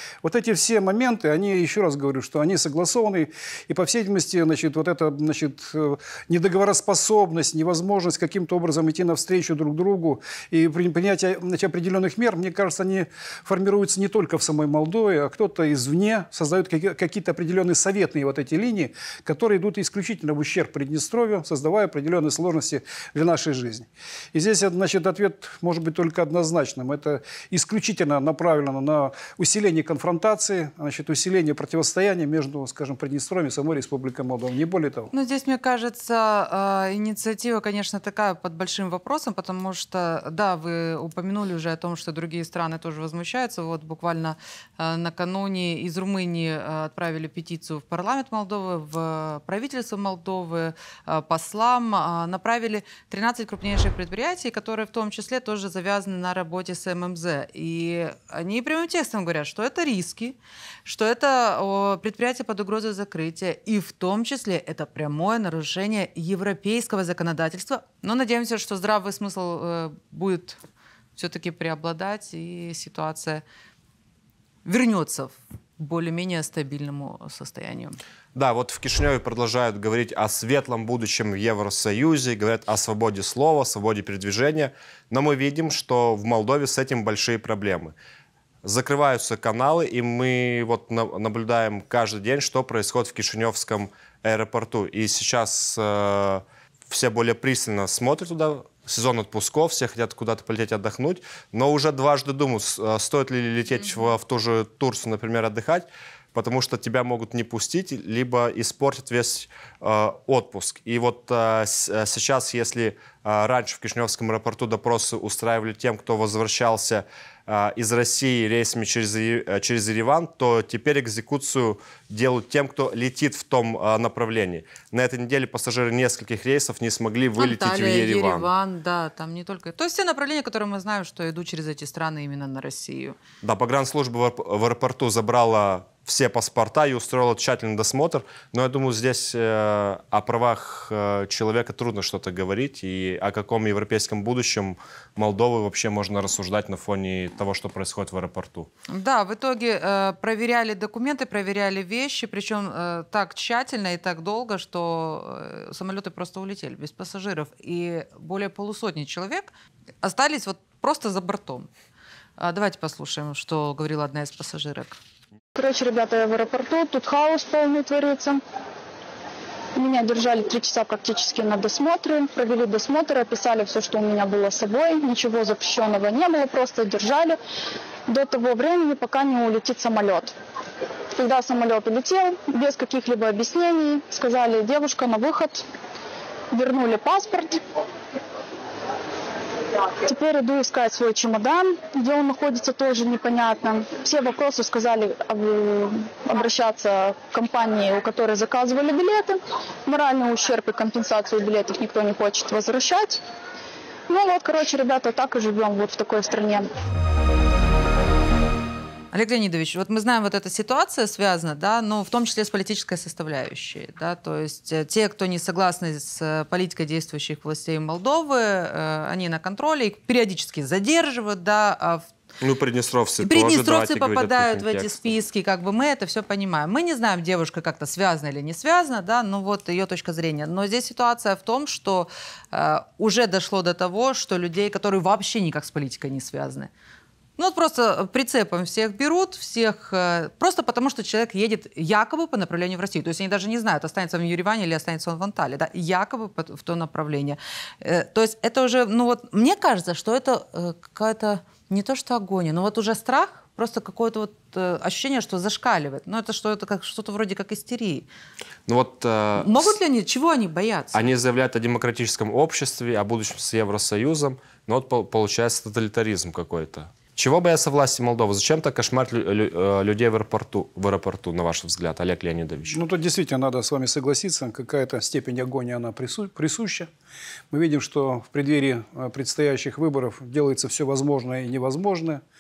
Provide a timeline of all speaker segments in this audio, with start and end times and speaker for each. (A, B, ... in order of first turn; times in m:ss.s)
0:00.2-0:35.1 A
0:35.1-1:10.6 B
1:11.2-1:13.4 B
1:14.6-1:18.0 B
1:18.4-1:27.9 C
1:28.6-2:08.5 C
1:43.8-1:44.1 B
2:07.4-2:13.2 B
2:13.4-2:28.7 C
2:28.9-2:39.5 B
2:40.0-2:41.7 B
2:42.4-2:45.0 B
2:45.6-2:48.4 D
2:49.8-2:57.4 D
2:58.1-3:00.3 D
3:01.2-3:05.6 D
3:06.5-3:07.6 D
3:10.0-3:23.2 D
3:24.1-3:26.7 D
3:29.1-3:42.1 B
3:42.4-3:45.2 C
3:43.2-3:56.7 B
3:57.4-4:18.1 B
4:18.7-4:19.8 C
4:19.4-4:21.0 B
4:20.9-4:32.8 C
4:32.7-4:36.9 A
4:37.5-4:42.2 A